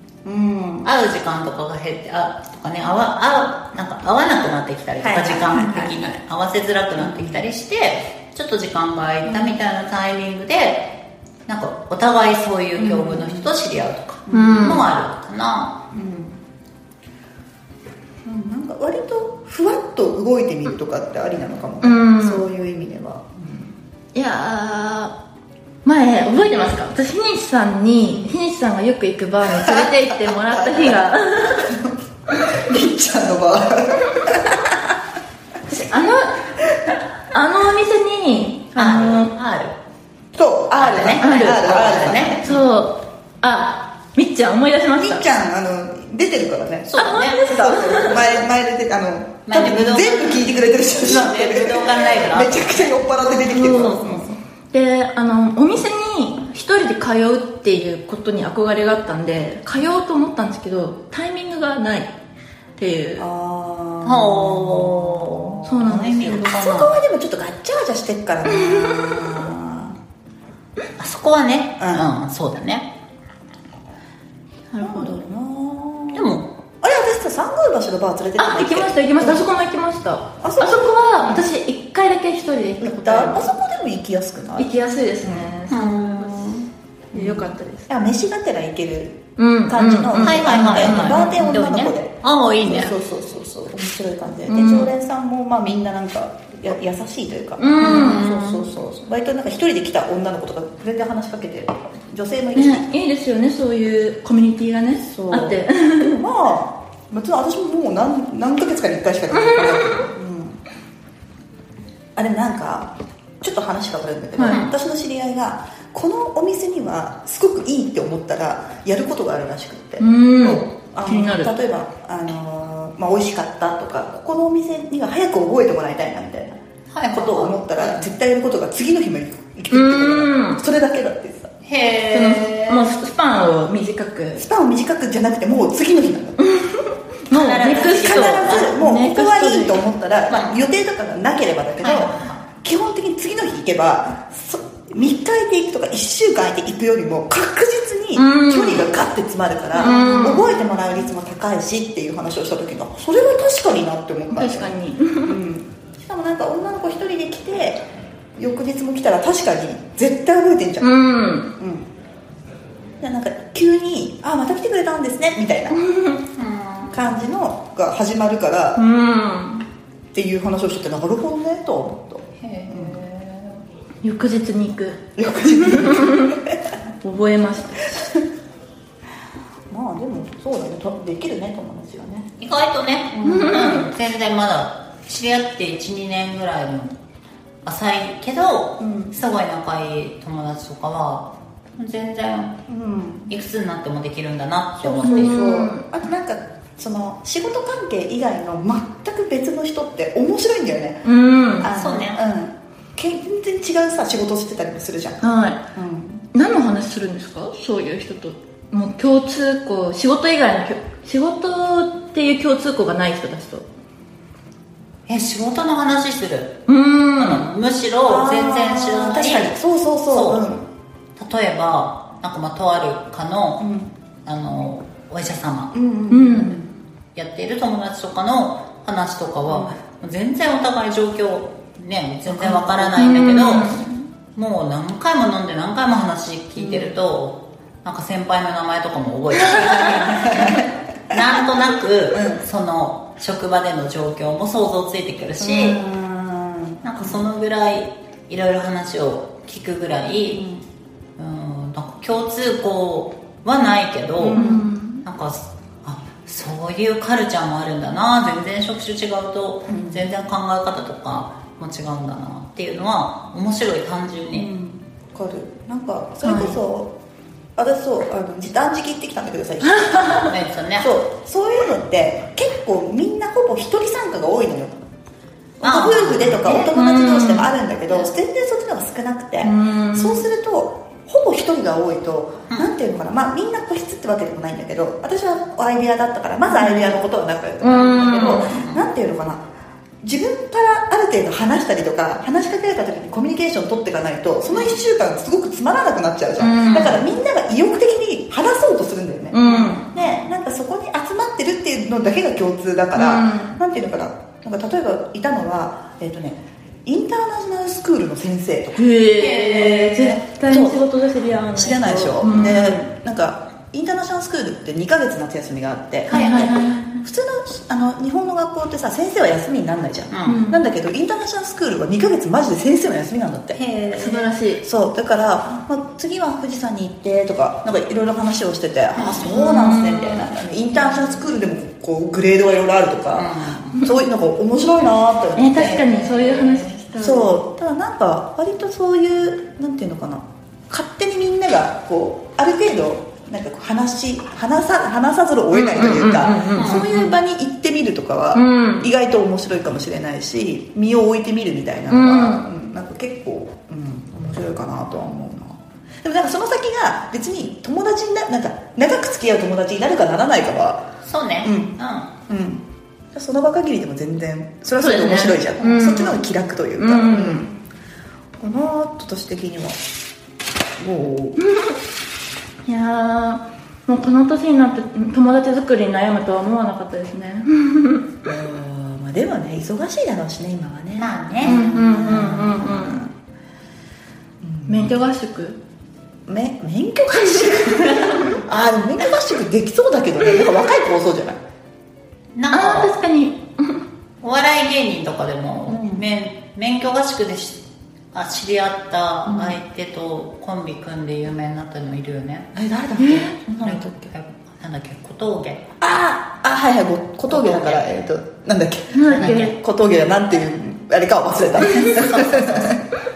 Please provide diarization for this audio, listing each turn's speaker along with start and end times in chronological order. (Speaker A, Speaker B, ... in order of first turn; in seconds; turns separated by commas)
Speaker A: 0.2-0.9, Speaker B: 0.8-10.9, Speaker A: 5.0-6.0, Speaker A: 7.0-7.4, Speaker B: 11.5-15.8, Speaker A: 12.8-13.5, Speaker A: 14.3-14.8, Speaker C: 14.3-14.9, Speaker A: 15.9-16.4, Speaker A: 18.2-23.7, Speaker C: 21.8-22.4, Speaker C: 24.1-25.1, Speaker C: 25.8-31.7, Speaker A: 29.5-34.9, Speaker C: 35.7-36.5, Speaker C: 37.3-39.3, Speaker B: 38.8-39.8, Speaker A: 40.3-42.6, Speaker B: 40.8-42.5, Speaker C: 41.2-41.6, Speaker C: 42.4-45.2, Speaker A: 45.0-54.4, Speaker B: 46.9-47.5, Speaker C: 47.1-48.4, Speaker B: 49.5-53.0, Speaker C: 53.5-54.1, Speaker B: 53.8-54.4, Speaker C: 54.7-62.1, Speaker C: 62.8-63.3, Speaker A: 63.2-70.0, Speaker B: 64.0-67.0, Speaker C: 65.7-66.6, Speaker C: 68.5-69.4, Speaker B: 71.0-72.9, Speaker A: 71.8-72.0, Speaker C: 74.7-75.2, Speaker A: 74.8-76.3, Speaker B: 76.1-76.5, Speaker A: 76.8-79.5, Speaker C: 78.4-83.5, Speaker A: 80.4-81.5, Speaker A: 82.8-84.7, Speaker C: 84.6-86.6, Speaker A: 85.2-85.6, Speaker B: 85.7-86.7, Speaker C: 87.1-87.9, Speaker A: 87.1-102.9, Speaker C: 89.4-91.6, Speaker B: 90.2-93.0, Speaker C: 94.5-94.9, Speaker C: 97.6-98.2, Speaker B: 97.8-98.7, Speaker C: 102.5-106.2, Speaker A: 105.0-110.6, Speaker C: 109.3-110.0, Speaker A: 112.2-126.6, Speaker C: 114.4-114.6, Speaker C: 120.0-121.5, Speaker B: 126.9-128.1, Speaker A: 127.1-131.5, Speaker C: 129.7-130.6, Speaker B: 131.7-132.9, Speaker C: 132.1-134.4, Speaker A: 134.3-136.4, Speaker C: 136.4-139.8, Speaker B: 137.3-138.7, Speaker A: 138.0-157.8, Speaker B: 140.3-140.5, Speaker B: 141.8-142.4, Speaker C: 148.2-148.9, Speaker C: 149.8-150.6, Speaker B: 149.9-150.3, Speaker C: 154.3-155.4, Speaker A: 158.4-160.9, Speaker C: 160.8-161.5, Speaker A: 161.6-161.9, Speaker A: 163.0-165.8, Speaker C: 165.8-166.2, Speaker B: 166.3-167.2, Speaker A: 166.9-168.8, Speaker C: 168.8-169.7, Speaker A: 170.1-173.0, Speaker B: 172.4-173.6, Speaker C: 174.0-176.3, Speaker A: 175.2-176.6, Speaker C: 177.0-178.0, Speaker A: 179.7-182.3, Speaker B: 182.4-186.9, Speaker A: 183.1-183.7, Speaker C: 183.2-183.8, Speaker B: 187.7-192.5, Speaker A: 188.8-189.2, Speaker A: 192.7-193.3, Speaker B: 193.3-195.5, Speaker A: 194.8-206.3, Speaker C: 195.0-195.9, Speaker C: 201.0-201.7, Speaker B: 201.7-202.2, Speaker C: 205.2-205.6, Speaker C: 206.3-213.7, Speaker B: 215.1-216.6, Speaker C: 216.7-217.3, Speaker B: 217.2-220.4, Speaker A: 218.1-220.7, Speaker B: 221.2-223.6, Speaker A: 223.6-223.9, Speaker B: 224.2-225.7, Speaker A: 225.7-226.7, Speaker C: 226.1-226.6, Speaker B: 227.2-233.8, Speaker A: 229.5-229.8, Speaker A: 232.3-233.2, Speaker C: 233.0-233.9, Speaker B: 234.3-245.8, Speaker A: 236.6-237.0, Speaker A: 240.2-240.6, Speaker A: 242.1-242.4, Speaker A: 245.4-247.2, Speaker B: 246.8-250.4, Speaker A: 250.3-250.6, Speaker B: 251.2-254.4, Speaker A: 254.2-254.7, Speaker C: 254.3-255.1, Speaker B: 255.0-264.5, Speaker A: 259.7-260.0, Speaker A: 264.3-266.9, Speaker C: 266.2-266.6, Speaker A: 267.6-274.9, Speaker C: 269.6-270.3, Speaker B: 270.2-270.9, Speaker A: 275.6-289.4, Speaker B: 275.6-276.7, Speaker C: 276.5-277.5, Speaker C: 279.4-280.2, Speaker B: 286.6-287.0, Speaker C: 287.6-288.5, Speaker B: 288.4-288.9, Speaker A: 290.0-308.9, Speaker C: 296.4-297.0, Speaker B: 296.6-297.0, Speaker C: 299.3-299.9, Speaker B: 299.9-300.2, Speaker C: 302.9-303.6, Speaker C: 308.8-312.8, Speaker B: 309.1-310.2, Speaker A: 310.5-310.9, Speaker A: 311.5-323.6, Speaker B: 316.1-316.6, Speaker C: 316.1-317.1, Speaker B: 320.1-320.4, Speaker C: 320.2-320.7, Speaker B: 323.5-324.3, Speaker C: 323.9-324.7, Speaker A: 324.6-336.0, Speaker B: 328.9-329.4, Speaker C: 329.3-330.3, Speaker B: 333.1-333.9, Speaker C: 335.4-337.4, Speaker B: 336.0-336.7, Speaker A: 337.0-360.9, Speaker C: 345.5-347.1, Speaker B: 346.5-346.9, Speaker C: 348.3-348.9, Speaker C: 351.9-352.5, Speaker B: 361.0-362.1, Speaker A: 361.4-367.6, Speaker C: 364.8-366.2, Speaker C: 366.8-367.5, Speaker A: 368.4-369.8, Speaker A: 370.8-371.5, Speaker C: 371.4-371.8, Speaker C: 372.7-378.1, Speaker A: 378.3-383.1, Speaker B: 381.0-381.6, Speaker C: 381.5-383.0, Speaker A: 384.4-385.0, Speaker C: 384.7-385.6, Speaker A: 386.3-391.4, Speaker C: 387.2-388.2, Speaker B: 392.4-393.0, Speaker C: 392.5-393.8, Speaker B: 394.2-397.6, Speaker A: 395.7-396.0, Speaker B: 398.1-402.5, Speaker A: 402.5-404.1, Speaker C: 403.0-403.4, Speaker B: 403.6-405.6, Speaker A: 405.8-412.9, Speaker B: 407.3-407.9, Speaker C: 408.9-409.5, Speaker B: 409.1-409.6, Speaker B: 411.6-412.8